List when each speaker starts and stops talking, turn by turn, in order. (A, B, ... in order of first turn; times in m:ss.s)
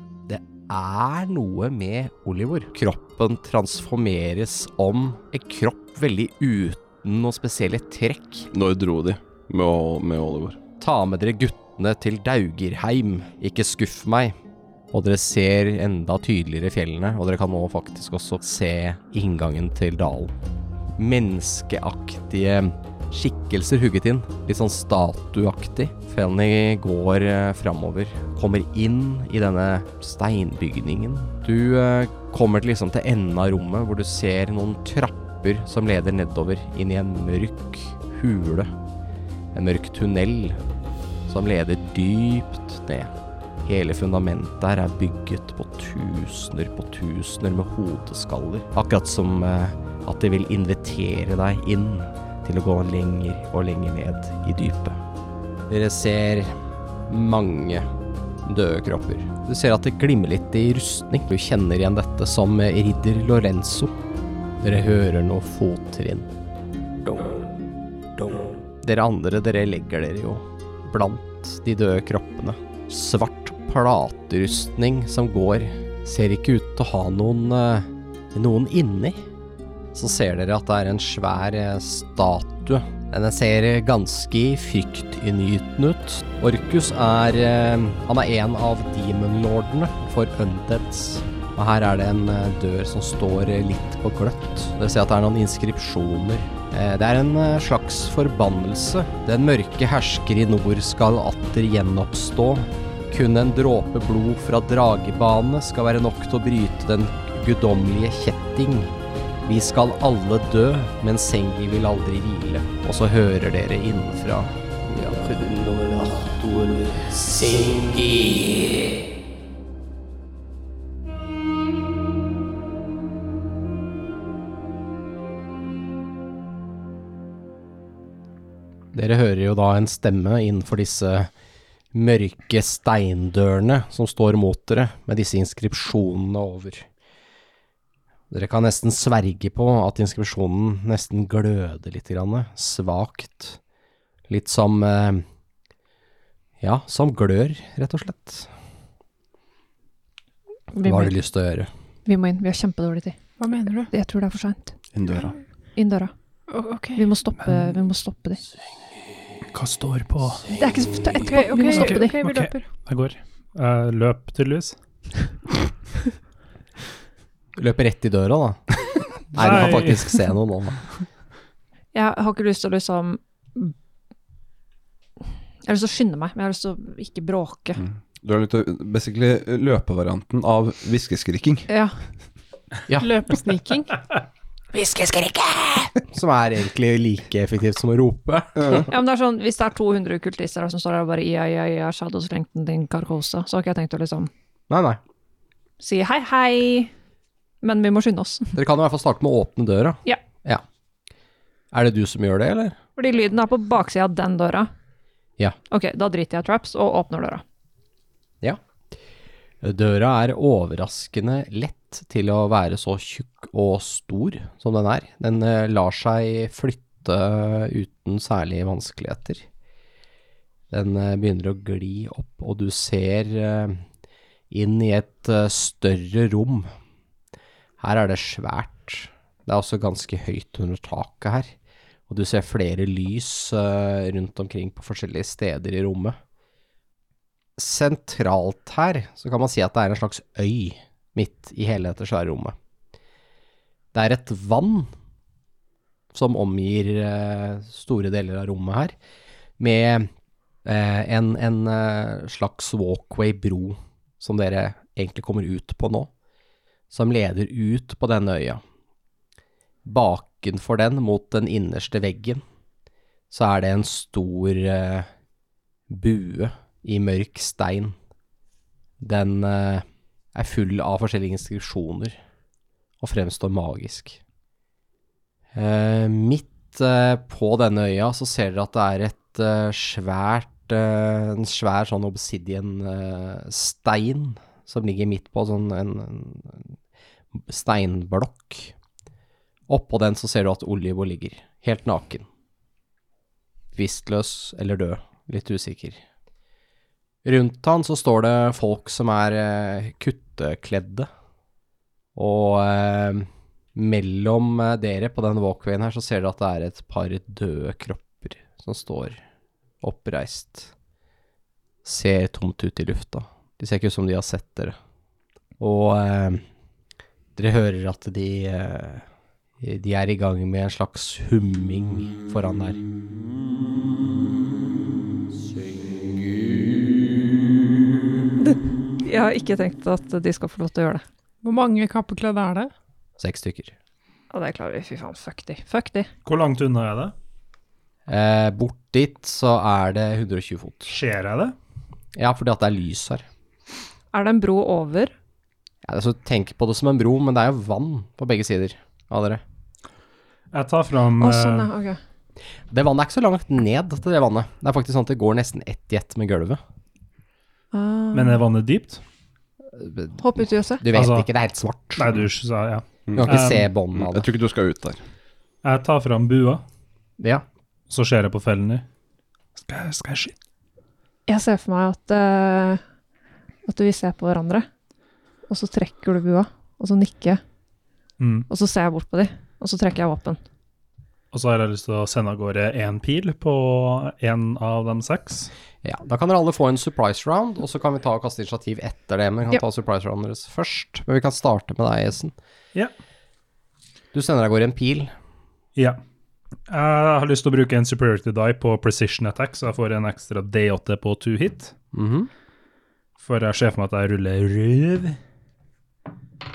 0:00.2-0:08.5 A
0:08.5-0:10.6 B
0:10.8-0:14.4 A
0:14.9-0:20.3 A
0:21.0-0:38.7 A
0:39.5-0:40.6 A
0:41.3-0:43.1 A
0:43.6-0:55.0 A
0:55.7-0:56.5 A
0:57.1-0:57.9 A
0:58.4-1:04.0 A
1:04.6-1:06.3 A
1:07.0-1:07.4 A
1:08.2-1:19.2 A
1:19.9-1:48.9 A
1:49.4-1:59.0 A
2:08.9-2:11.3 A
2:11.9-2:16.9 A
2:18.3-2:23.6 A
2:24.3-2:25.2 A
2:26.6-2:28.5 A
2:30.7-2:31.2 C
2:30.8-2:31.7 A
2:32.1-2:33.2 C
2:33.4-2:33.9 D
2:33.9-2:34.8 C
2:34.9-2:35.3 B
2:35.8-2:36.1 C
2:36.5-2:37.0 D
2:37.0-2:38.4 C
2:39.5-2:40.5 E
2:40.5-2:42.2 C
2:41.1-2:42.7 D
2:41.7-2:44.8 E
2:47.6-2:50.8 A
2:49.3-2:50.2 E
2:51.9-2:53.7 C
2:55.6-2:57.8 C
2:57.8-3:01.7 B
3:01.7-3:02.0 C
3:03.0-3:04.0 D
3:04.7-3:08.8 A
3:08.6-3:08.9 B
3:08.7-3:14.3 C
3:14.7-3:15.0 A
3:15.8-3:16.9 C
3:17.6-3:18.6 C
3:18.6-3:20.6 A
3:21.7-3:22.8 A
3:23.0-3:24.7 C
3:25.7-3:27.4 C
3:29.6-3:39.4 A
3:40.7-3:43.8 A
3:44.5-3:46.7 A
3:47.8-3:51.5 A
3:52.1-3:56.2 A
3:57.6-4:02.6 A
4:03.9-4:04.9 A
4:06.1-4:09.0 A
4:09.6-4:10.1 A
4:10.6-4:16.1 A
4:16.9-4:18.6 A
4:19.8-4:22.4 A
4:23.3-4:25.1 A
4:25.9-4:28.0 A
4:29.0-4:32.2 A
4:33.0-4:34.2 A
4:35.5-4:46.7 A
4:47.3-4:48.7 A
4:49.7-4:52.2 A
4:53.7-4:56.0 A
4:57.2-5:01.1 A
5:02.1-5:09.2 A
5:09.8-5:10.7 A
5:11.8-5:14.8 A
5:15.6-5:16.4 A
5:17.4-5:19.0 A
5:19.6-5:22.8 A
5:26.0-5:27.1 A
5:28.4-5:31.0 C
5:31.4-5:32.7 D
5:33.2-5:33.7 A
5:34.3-5:36.1 C
5:36.2-5:37.1 E
5:38.1-5:40.9 A
5:40.9-5:41.5 E
5:42.2-5:43.2 A
5:44.1-5:45.1 C
5:45.8-5:49.4 A
5:50.5-5:51.7 E
5:51.2-5:52.0 C
5:52.7-5:56.6 A
5:57.7-5:58.4 C
5:58.1-5:59.0 E
5:59.7-6:00.2 A
6:00.2-6:00.8 C
6:00.8-6:02.1 A
6:00.9-6:01.3 E
6:02.0-6:03.7 E
6:03.1-6:05.0 B
6:03.2-6:04.3 A
6:05.6-6:06.6 E
6:07.2-6:07.4 A
6:07.9-6:08.8 E
6:09.6-6:10.3 E
6:11.3-6:12.8 C
6:13.6-6:14.7 C
6:15.5-6:17.4 C
6:18.2-6:18.5 E
6:18.5-6:20.4 C
6:21.3-6:25.5 E
6:25.8-6:32.3 A
6:34.1-6:35.1 A
6:36.7-6:41.7 E
6:41.9-6:42.3 A
6:43.2-6:45.2 E